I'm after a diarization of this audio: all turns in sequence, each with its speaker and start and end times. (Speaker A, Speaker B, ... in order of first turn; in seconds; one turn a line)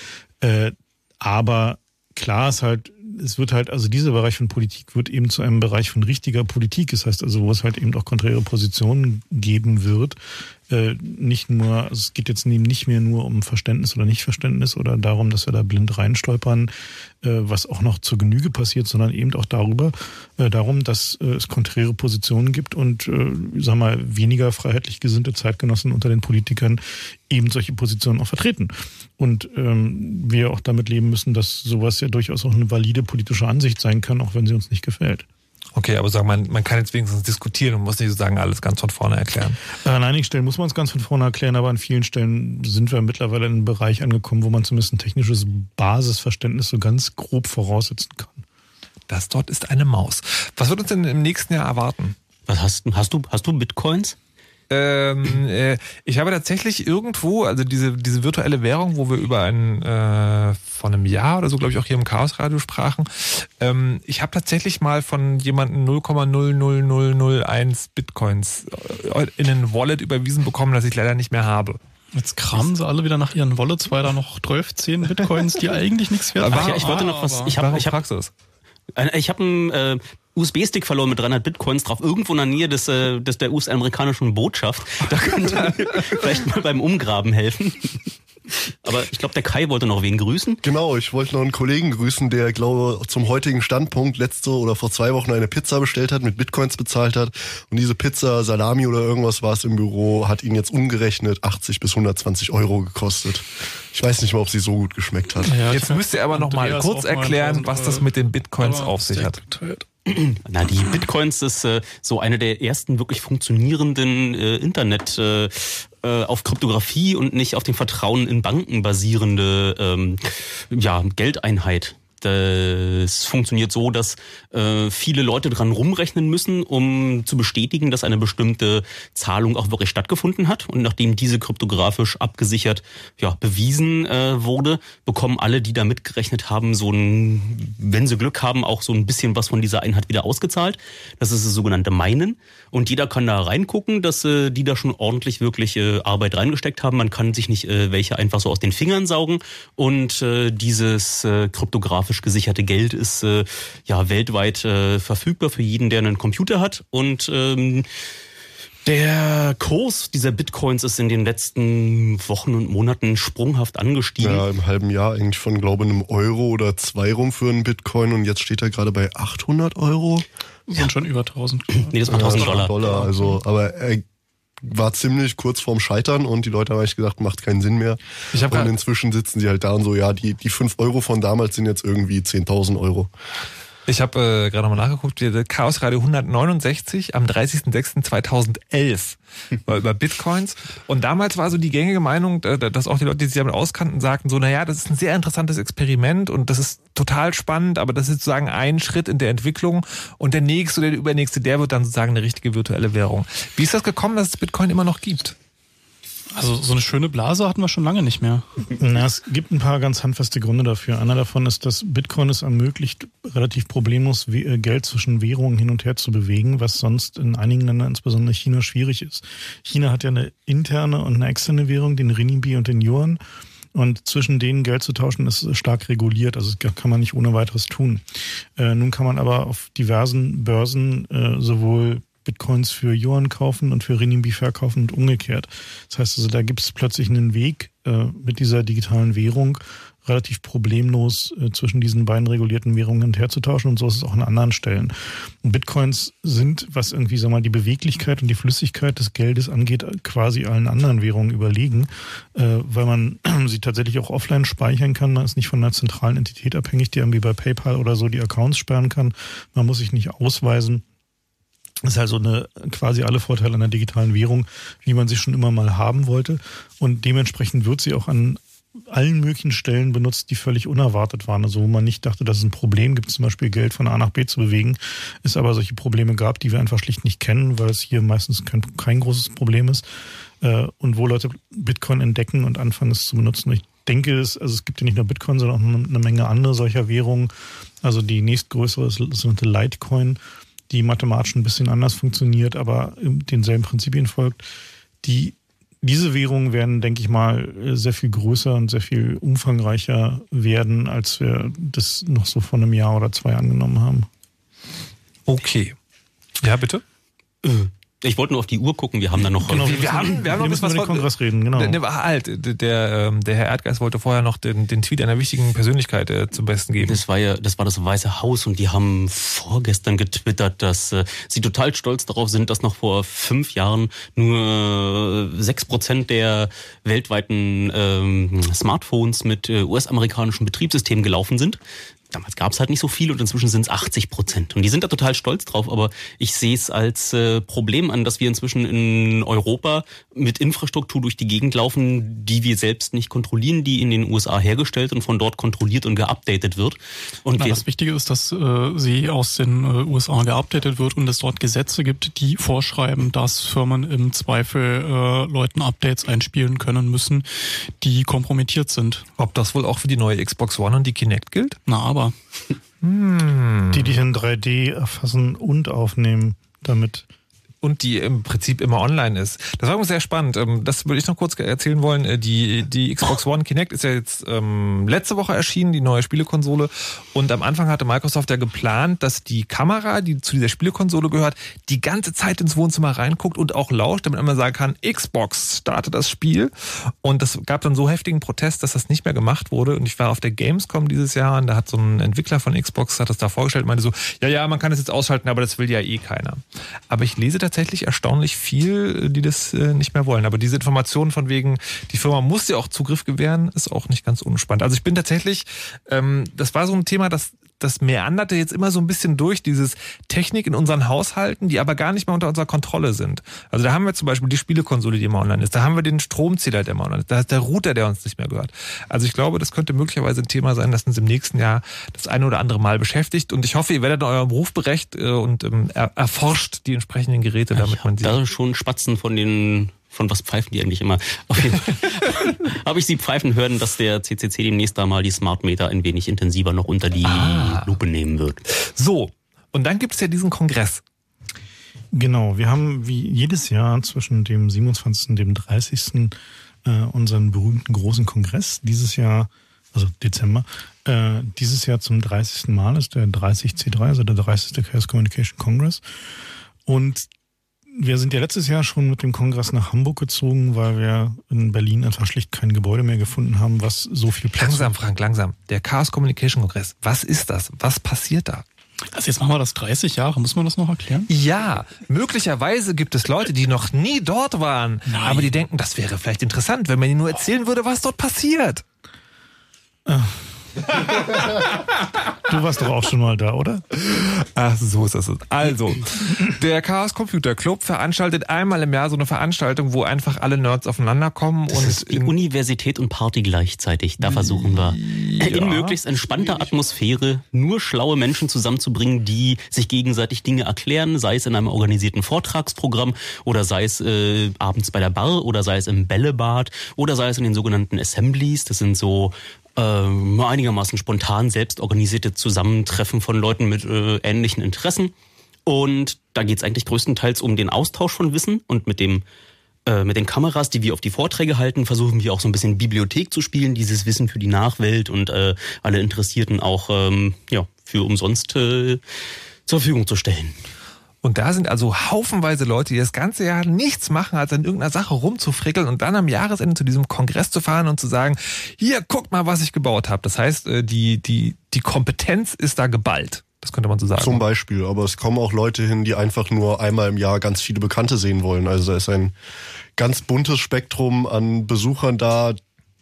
Speaker A: 0.4-10.2
Speaker A: 10.7-35.2
Speaker B: 35.8-39.6
Speaker A: 39.9-48.4
Speaker B: 49.1-52.2
Speaker C: 52.5-54.2
Speaker B: 54.7-71.8
Speaker D: 72.1-77.6
Speaker B: 76.4-78.3
Speaker C: 76.4-78.0
Speaker C: 79.0-88.1
Speaker B: 85.1-86.2
Speaker C: 88.8-90.6
Speaker E: 90.6-105.5
Speaker D: 105.5-110.2
Speaker B: 105.7-109.4
Speaker C: 110.4-157.9
Speaker C: 158.9-164.4
Speaker E: 164.2-170.2
Speaker D: 170.7-173.4
Speaker C: 171.9-172.7
Speaker E: 172.1-174.0
Speaker E: 174.6-183.1
Speaker B: 178.3-178.7
Speaker B: 183.9-205.4
Speaker D: 206.3-208.6
Speaker A: 208.8-223.2
Speaker A: 223.7-228.0
Speaker A: 228.6-260.8
Speaker A: 261.8-279.9
Speaker A: 280.4-294.5
Speaker A: 295.0-304.1
Speaker B: 305.3-305.8
Speaker B: 306.4-306.8
Speaker C: 307.4-309.9
Speaker A: 309.5-311.8
Speaker B: 309.5-317.0
Speaker C: 316.8-331.6
Speaker C: 332.1-347.6
Speaker D: 347.4-359.1
Speaker B: 359.2-361.6
Speaker D: 361.7-362.1
Speaker B: 362.8-364.0
Speaker A: 363.7-367.1
Speaker B: 367.6-428.2
Speaker C: 427.6-438.4
Speaker B: 437.0-437.7
Speaker B: 438.6-440.8
Speaker A: 441.9-455.8
Speaker A: 456.7-457.1
Speaker A: 457.7-464.7
Speaker B: 464.4-468.4
Speaker D: 468.9-471.1
Speaker B: 471.1-478.6
Speaker D: 474.9-475.3
Speaker A: 479.9-480.3
Speaker A: 481.0-481.4
Speaker A: 482.3-483.6
Speaker B: 483.9-492.1
Speaker C: 491.5-514.9
Speaker B: 494.0-496.5
Speaker C: 515.5-519.0
Speaker C: 519.7-528.8
Speaker C: 529.5-530.4
Speaker B: 531.0-544.2
Speaker E: 544.0-549.1
Speaker E: 549.8-552.4